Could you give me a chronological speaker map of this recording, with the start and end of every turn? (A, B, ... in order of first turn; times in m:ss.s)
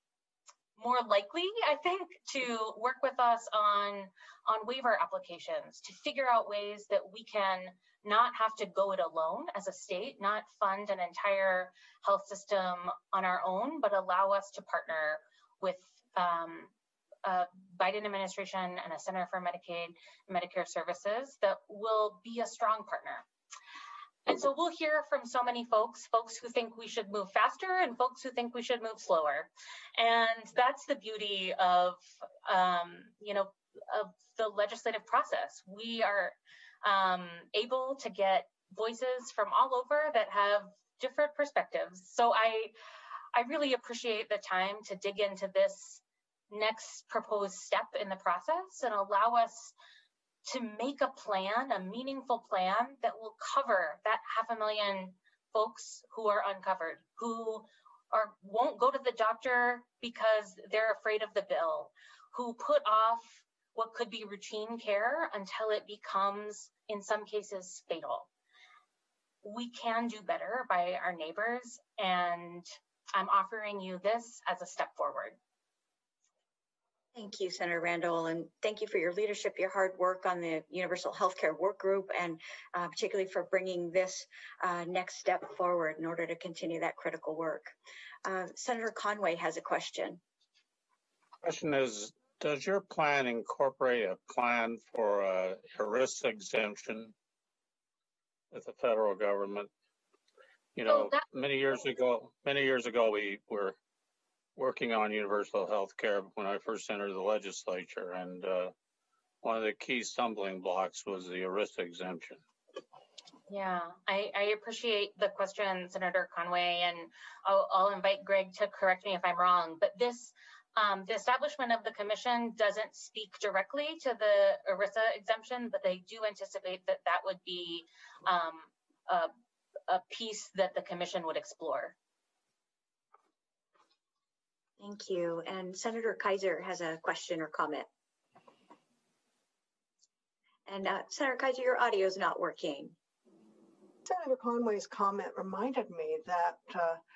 0:00.8-0:16.7 A
0:17.2-0:23.2 A
0:24.2-0:42.7 A
0:43.3-0:49.7 A
0:50.4-1:08.3 A
1:09.4-1:15.4 A
1:17.1-1:30.2 B
1:31.4-1:37.1 C
1:38.5-1:39.7 C
1:40.7-1:43.8 C
1:44.6-1:48.7 C
1:49.4-1:52.4 C
1:53.5-2:09.3 A
2:09.9-2:12.0 A
2:14.8-2:17.9 B
2:20.7-2:22.9 B
2:24.0-2:27.0 D